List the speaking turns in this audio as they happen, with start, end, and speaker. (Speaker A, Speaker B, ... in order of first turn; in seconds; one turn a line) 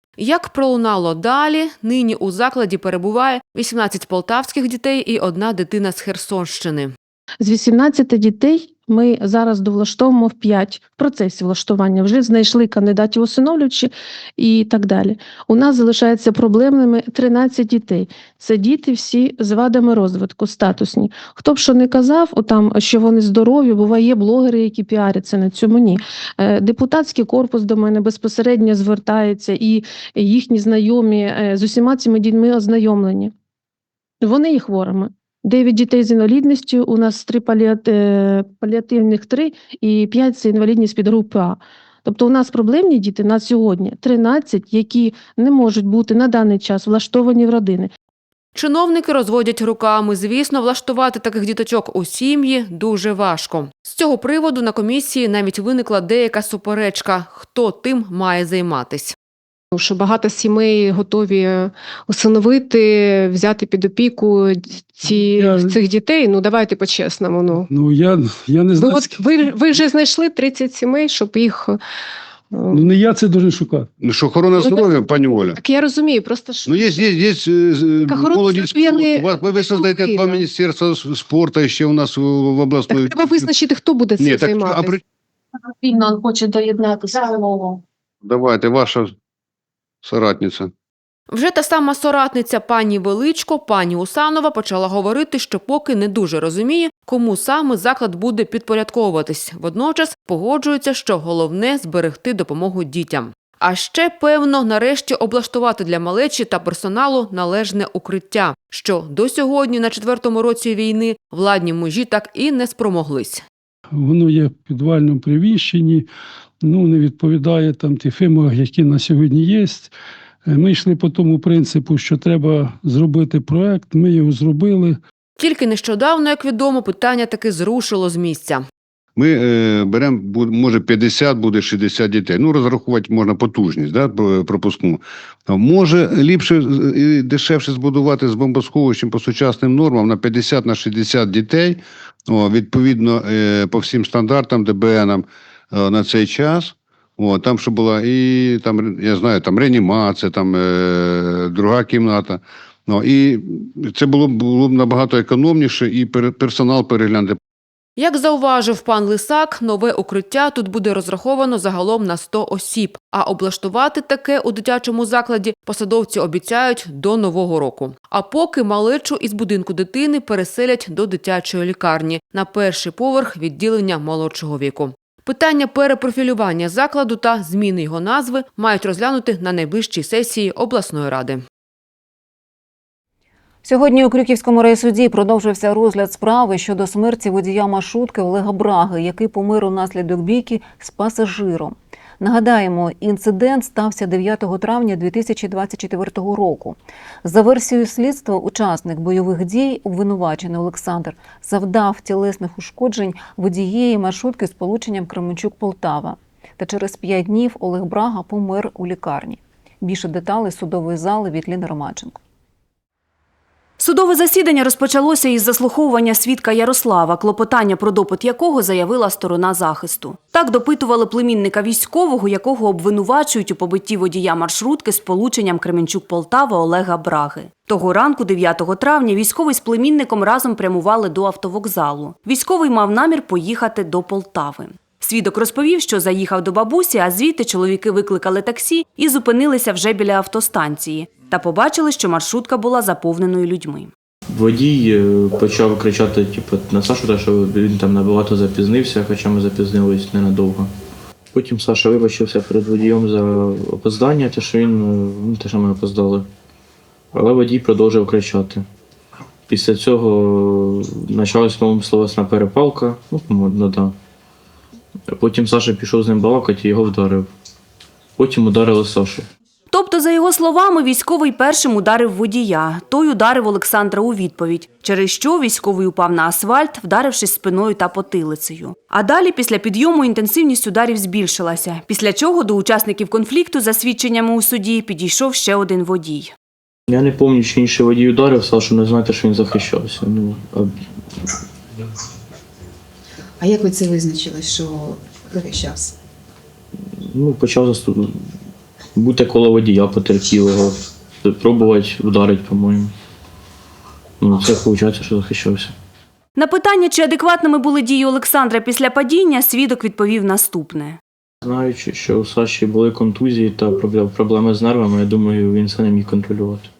Speaker A: 0.2-6.9
Speaker B: 7.4-33.3
Speaker B: 34.2-47.9
Speaker A: 48.5-59.1
Speaker C: 59.7-67.7
Speaker D: 65.0-65.8
Speaker D: 67.7-69.3
Speaker C: 68.7-71.8
Speaker C: 72.5-72.8
Speaker D: 72.7-73.9
Speaker E: 74.0-75.6
Speaker C: 74.6-74.8
Speaker C: 75.6-76.8
Speaker E: 76.7-83.5
Speaker C: 78.1-80.4
Speaker C: 82.9-85.0
Speaker E: 84.2-85.0
Speaker C: 85.8-87.8
Speaker E: 88.2-89.1
Speaker E: 90.0-90.7
Speaker A: 91.3-113.4
Speaker D: 113.9-116.1
Speaker D: 116.6-119.9
Speaker D: 120.5-125.0
Speaker A: 125.4-128.6
Speaker E: 129.2-157.4
Speaker A: 158.0-181.4
Speaker F: 183.6-212.2
Speaker G: 213.8-243.9
Speaker H: 244.3-250.7
Speaker H: 251.3-256.3
Speaker H: 257.1-258.6
Speaker H: 259.5-263.9
Speaker H: 265.1-267.3
Speaker H: 268.2-269.3
Speaker G: 269.7-286.3
Speaker H: 286.9-290.7
Speaker I: 293.4-295.9
Speaker H: 297.0-298.3
Speaker H: 298.9-302.9
Speaker H: 304.2-305.7
Speaker G: 306.4-311.0
Speaker H: 311.4-316.7